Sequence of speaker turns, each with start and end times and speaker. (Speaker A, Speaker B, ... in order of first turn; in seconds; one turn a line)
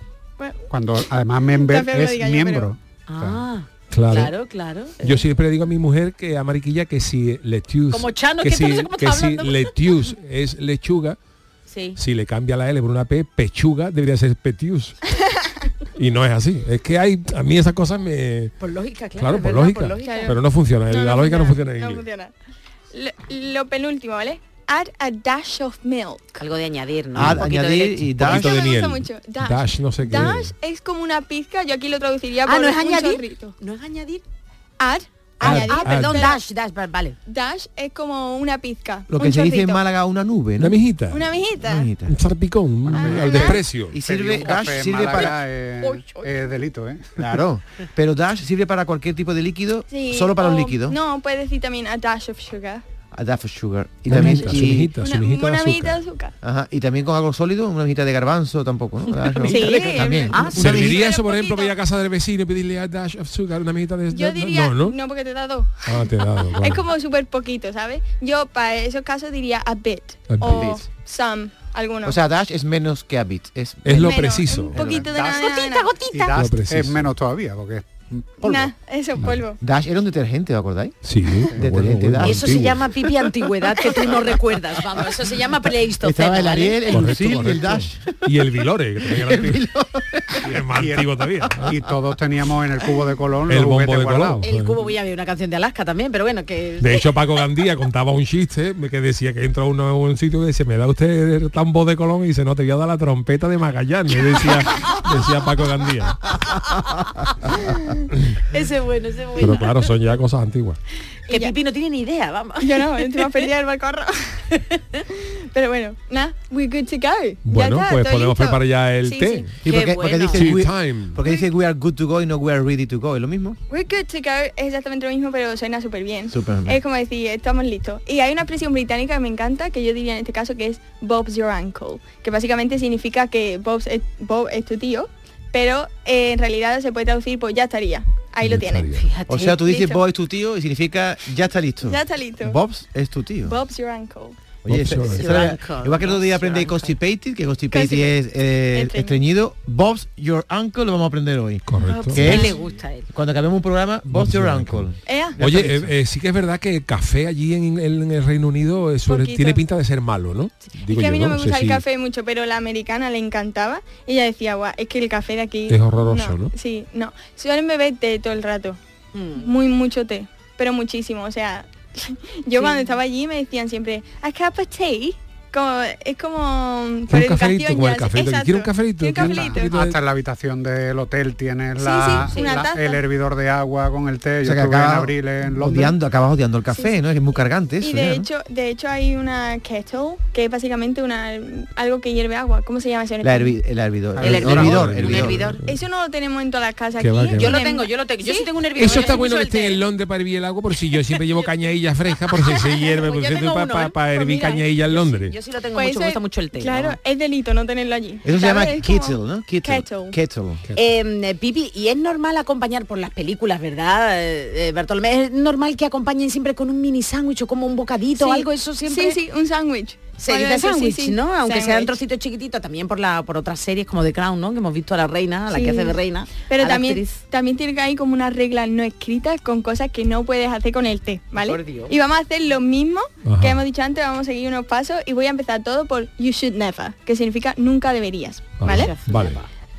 Speaker A: 0.4-0.7
Speaker B: 0.7-3.4
Speaker A: 1.6-2.7
Speaker C: 3.1-5.2
Speaker D: 3.9-4.3
Speaker D: 5.0-11.2
Speaker C: 7.9-9.7
Speaker C: 11.7-12.0
Speaker D: 11.9-14.9
Speaker D: 15.9-18.5
Speaker C: 18.6-20.4
Speaker D: 19.1-22.0
Speaker A: 20.0-22.3
Speaker A: 22.9-26.4
Speaker C: 26.4-28.1
Speaker E: 27.1-28.6
Speaker D: 28.1-30.5
Speaker A: 28.2-33.5
Speaker C: 32.4-34.2
Speaker A: 34.8-36.4
Speaker C: 35.4-37.2
Speaker D: 35.4-36.3
Speaker A: 37.2-39.8
Speaker E: 39.1-40.8
Speaker D: 40.6-41.2
Speaker A: 41.1-41.9
Speaker E: 41.6-42.1
Speaker D: 42.1-44.0
Speaker A: 42.9-43.6
Speaker B: 42.9-47.3
Speaker E: 43.9-45.4
Speaker C: 45.0-46.5
Speaker E: 47.2-51.0
Speaker A: 49.9-52.8
Speaker E: 53.1-54.9
Speaker D: 54.1-56.0
Speaker A: 54.2-56.3
Speaker E: 56.4-61.0
Speaker C: 59.4-60.9
Speaker A: 59.4-61.8
Speaker D: 60.5-65.0
Speaker A: 64.1-72.2
Speaker D: 65.8-66.9
Speaker D: 70.3-70.7
Speaker E: 70.4-70.8
Speaker E: 72.0-74.2
Speaker D: 73.8-74.8
Speaker A: 73.9-76.0
Speaker E: 74.8-75.0
Speaker B: 74.8-75.5
Speaker C: 75.2-76.4
Speaker B: 76.1-78.7
Speaker D: 76.4-77.1
Speaker A: 78.4-79.6
Speaker E: 79.6-82.6
Speaker D: 81.0-82.9
Speaker C: 82.2-87.1
Speaker E: 86.0-88.2
Speaker D: 86.9-89.7
Speaker E: 89.2-90.5
Speaker B: 90.5-94.4
Speaker D: 90.5-91.7
Speaker D: 93.5-94.8
Speaker C: 94.4-97.1
Speaker D: 96.8-106.4
Speaker C: 106.6-107.1
Speaker C: 108.5-109.9
Speaker D: 109.4-110.8
Speaker A: 111.3-111.5
Speaker C: 111.3-113.5
Speaker A: 112.6-114.5
Speaker A: 115.2-119.5
Speaker D: 117.4-119.5
Speaker E: 119.6-123.6
Speaker C: 119.6-120.5
Speaker D: 120.3-121.2
Speaker A: 121.2-121.5
Speaker A: 123.7-138.9
Speaker E: 126.3-126.8
Speaker D: 138.4-139.0
Speaker C: 138.9-139.7
Speaker E: 139.3-143.6
Speaker A: 139.6-140.0
Speaker A: 141.8-142.6
Speaker A: 143.4-144.4
Speaker E: 144.6-152.5
Speaker D: 144.7-145.5
Speaker C: 145.1-146.9
Speaker A: 147.7-149.2
Speaker D: 151.7-152.4
Speaker C: 151.8-153.1
Speaker A: 152.2-152.6
Speaker E: 153.1-155.9
Speaker D: 154.1-154.9
Speaker A: 155.0-155.4
Speaker D: 155.4-161.8
Speaker A: 159.1-159.6
Speaker A: 160.7-168.8
Speaker D: 165.7-166.5
Speaker C: 169.1-169.5
Speaker A: 169.3-179.8
Speaker C: 172.5-173.0
Speaker D: 177.1-180.0
Speaker B: 179.2-185.9
Speaker A: 181.8-183.0
Speaker C: 182.2-182.7
Speaker E: 184.4-188.3
Speaker A: 186.7-186.9
Speaker A: 187.8-193.6
Speaker E: 193.2-195.5
Speaker B: 194.2-194.9
Speaker C: 194.2-195.6
Speaker D: 194.5-195.8
Speaker A: 195.6-199.3
Speaker D: 197.0-197.6
Speaker C: 197.3-199.8
Speaker D: 198.8-205.3
Speaker C: 202.3-207.0
Speaker A: 204.1-204.6
Speaker A: 205.7-210.2
Speaker E: 208.2-210.6
Speaker C: 210.7-219.2
Speaker A: 218.2-221.9
Speaker C: 220.2-227.2
Speaker A: 225.5-238.9
Speaker C: 231.3-231.9
Speaker D: 233.2-233.6
Speaker D: 238.6-239.4
Speaker C: 238.6-239.5